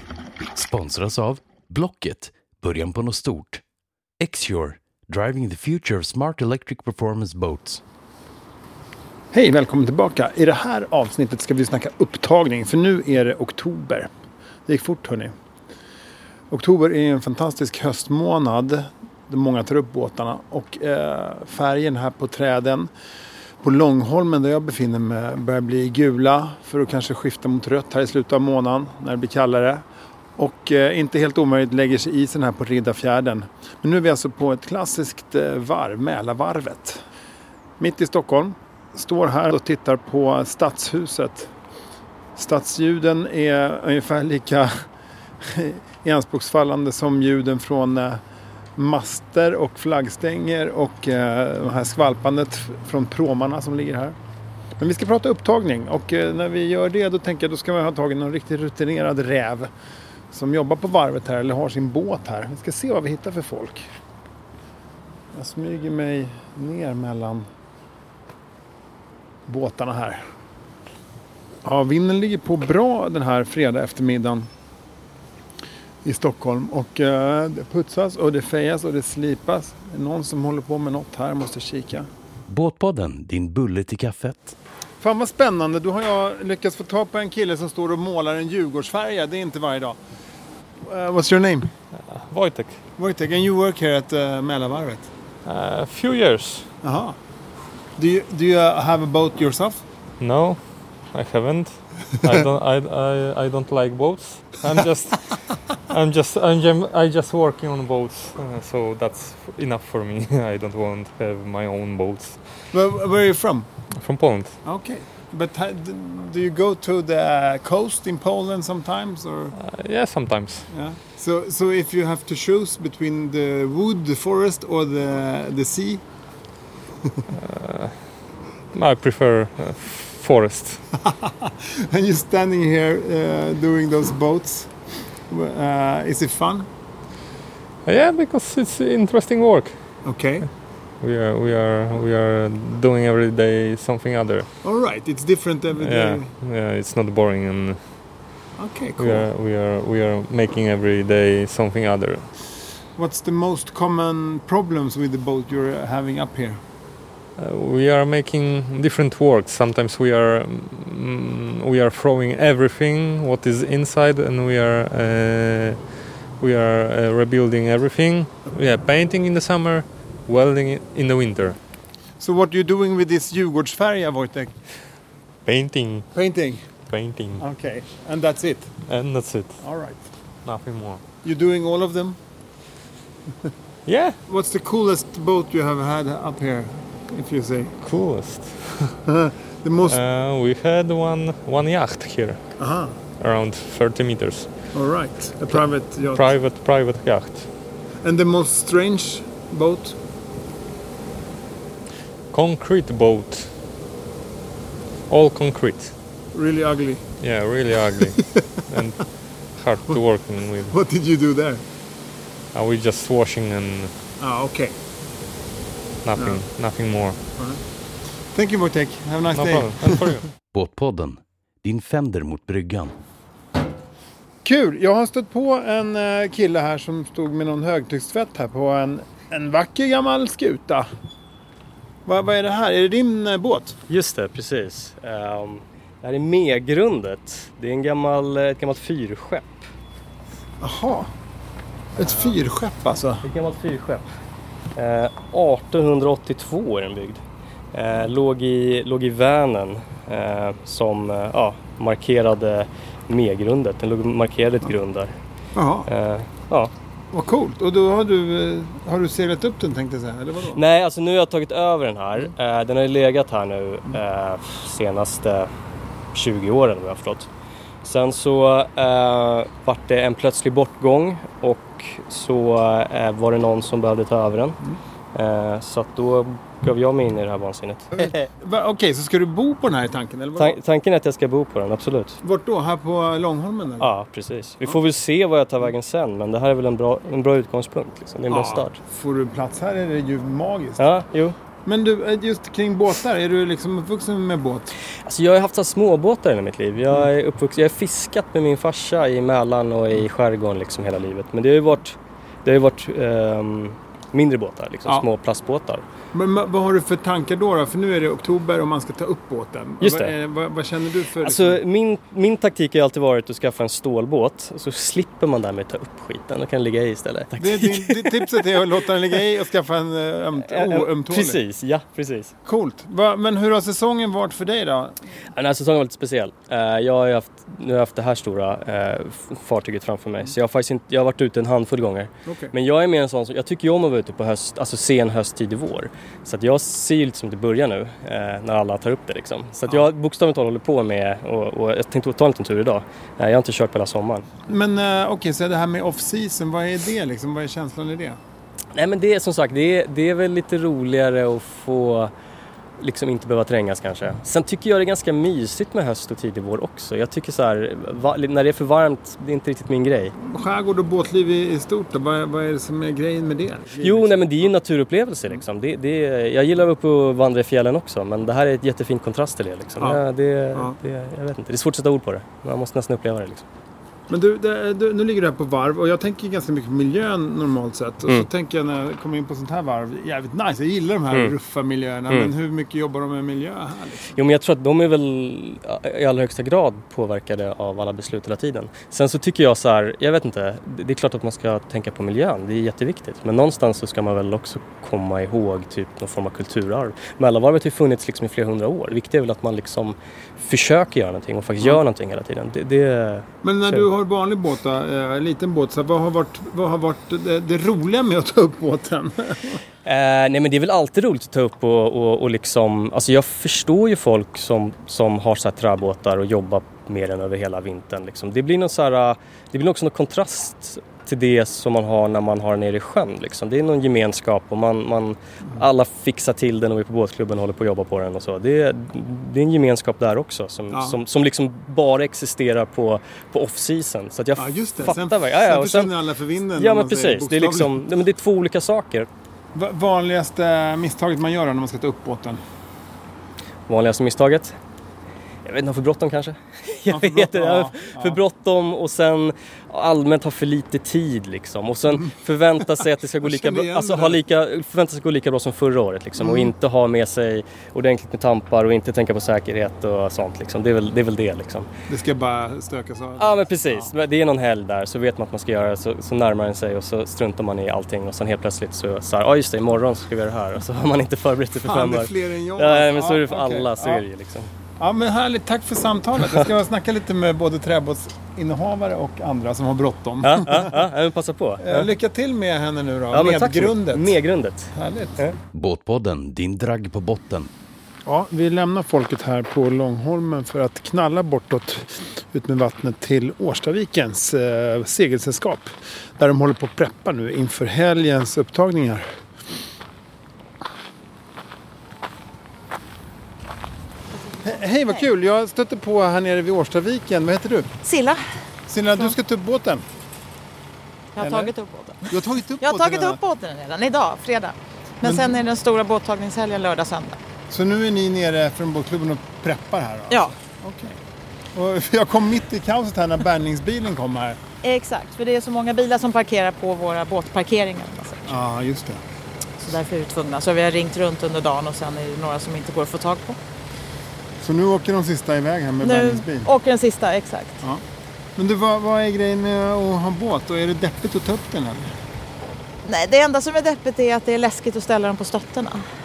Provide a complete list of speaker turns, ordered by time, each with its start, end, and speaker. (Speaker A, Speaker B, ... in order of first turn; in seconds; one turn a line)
Speaker A: 0.5-3.6
Speaker A: 4.2-7.8
Speaker B: 9.3-14.1
Speaker B: 14.7-15.3
Speaker B: 16.5-22.9
Speaker B: 23.6-29.8
Speaker B: 30.4-37.0
Speaker B: 37.8-41.5
Speaker B: 42.4-44.7
Speaker B: 45.4-48.2
Speaker B: 48.8-54.2
Speaker B: 54.8-59.7
Speaker B: 60.3-63.9
Speaker B: 65.3-67.5
Speaker B: 69.5-70.2
Speaker B: 71.6-74.5
Speaker B: 76.0-82.1
Speaker A: 82.5-84.5
Speaker B: 85.0-90.0
Speaker B: 90.8-91.7
Speaker C: 92.1-92.8
Speaker B: 93.0-95.1
Speaker C: 95.5-96.7
Speaker B: 96.8-97.2
Speaker B: 98.0-99.8
Speaker C: 100.2-100.6
Speaker C: 101.1-105.3
Speaker C: 105.9-112.4
Speaker B: 112.7-113.7
Speaker C: 114.0-114.6
Speaker B: 114.6-119.5
Speaker C: 119.6-120.7
Speaker B: 120.7-126.0
Speaker C: 127.3-128.0
Speaker C: 128.7-130.8
Speaker B: 131.1-134.7
Speaker B: 135.3-136.7
Speaker C: 137.9-139.7
Speaker B: 140.1-140.5
Speaker C: 141.0-144.5
Speaker B: 144.6-146.3
Speaker C: 145.8-147.8
Speaker B: 148.6-149.3
Speaker C: 149.0-152.3
Speaker B: 153.0-156.6
Speaker C: 157.4-165.8
Speaker C: 166.4-171.6
Speaker B: 172.2-174.5
Speaker C: 175.5-176.1
Speaker B: 176.1-176.6
Speaker C: 176.9-177.4
Speaker B: 177.4-178.7
Speaker C: 178.9-179.6
Speaker B: 179.6-180.0
Speaker C: 180.5-181.0
Speaker B: 181.2-182.2
Speaker C: 183.9-184.2
Speaker B: 184.3-187.8
Speaker C: 187.8-188.9
Speaker B: 189.1-190.0
Speaker C: 189.8-192.4
Speaker B: 192.6-193.0
Speaker C: 193.2-194.5
Speaker B: 194.7-196.3
Speaker C: 195.5-197.5
Speaker B: 198.0-199.9
Speaker C: 202.3-203.5
Speaker C: 205.1-205.9
Speaker B: 206.3-207.1
Speaker C: 207.2-208.2
Speaker C: 208.7-209.0
Speaker C: 209.6-210.8
Speaker B: 210.7-211.6
Speaker C: 212.5-213.9
Speaker B: 214.2-214.8
Speaker C: 216.0-217.2
Speaker B: 218.3-220.1
Speaker C: 219.3-220.3
Speaker A: 220.5-223.0
Speaker B: 224.4-230.9
Speaker B: 232.1-233.8
Speaker D: 233.9-239.5
Speaker B: 240.6-241.1
Speaker B: 242.0-243.2
Speaker D: 242.0-242.4
Speaker D: 243.2-244.0
Speaker D: 244.8-247.2
Speaker D: 247.7-255.1
Speaker B: 255.6-255.9
Speaker D: 255.9-256.7
Speaker B: 257.1-260.6
Speaker D: 260.6-265.5
Speaker D: 266.1-267.3
Speaker D: 267.8-274.6
Speaker D: 275.1-278.0
Speaker B: 278.0-280.6
Speaker D: 280.4-282.2
Speaker B: 282.2-283.9
Speaker D: 283.8-288.8
Speaker B: 288.3-290.9
Speaker D: 290.8-291.4
Speaker B: 291.6-294.7
Speaker D: 295.1-305.8
Speaker B: 306.1-311.6
Speaker D: 309.8-310.1
Speaker D: 311.2-318.4
Speaker B: 317.4-321.4
Speaker D: 320.5-322.3
Speaker B: 322.4-325.0
Speaker D: 325.4-344.3
Speaker B: 332.3-332.5
Speaker B: 344.5-348.2
Speaker D: 348.7-352.1
Speaker D: 352.8-360.1
Speaker B: 360.2-364.5
Speaker D: 363.8-373.4
Speaker B: 374.1-384.1
Speaker D: 384.2-403.9
Speaker B: 403.4-409.6
Speaker D: 409.9-435.9
Speaker B: 430.7-431.0
Speaker B: 434.4-437.8
Speaker D: 436.6-439.1
Speaker B: 439.5-442.4
Speaker D: 443.7-444.6
Speaker D: 445.4-461.7
Speaker B: 446.9-448.2
Speaker B: 453.2-454.2
Speaker B: 456.2-456.5
Speaker B: 461.9-463.9
Speaker D: 463.2-474.5
Speaker B: 471.6-474.0
Speaker B: 474.8-480.7
Speaker D: 480.2-481.9
Speaker B: 481.6-484.2
Speaker D: 483.1-485.4
Speaker B: 484.7-485.2
Speaker A: 485.5-487.5
Speaker B: 488.1-499.1
Speaker E: 504.4-505.0
Speaker B: 504.4-507.7
Speaker E: 507.8-508.2
Speaker B: 508.7-509.9
Speaker E: 511.2-517.2
Speaker B: 511.2-511.5
Speaker B: 512.1-513.2
Speaker B: 515.0-515.4
Speaker B: 517.5-521.0
Speaker E: 520.1-520.4
Speaker B: 521.5-524.4
Speaker E: 524.6-528.4
Speaker B: 528.3-529.0
Speaker E: 529.6-533.4
Speaker B: 534.4-536.5
Speaker E: 535.8-537.6
Speaker B: 538.4-541.9
Speaker E: 542.9-545.9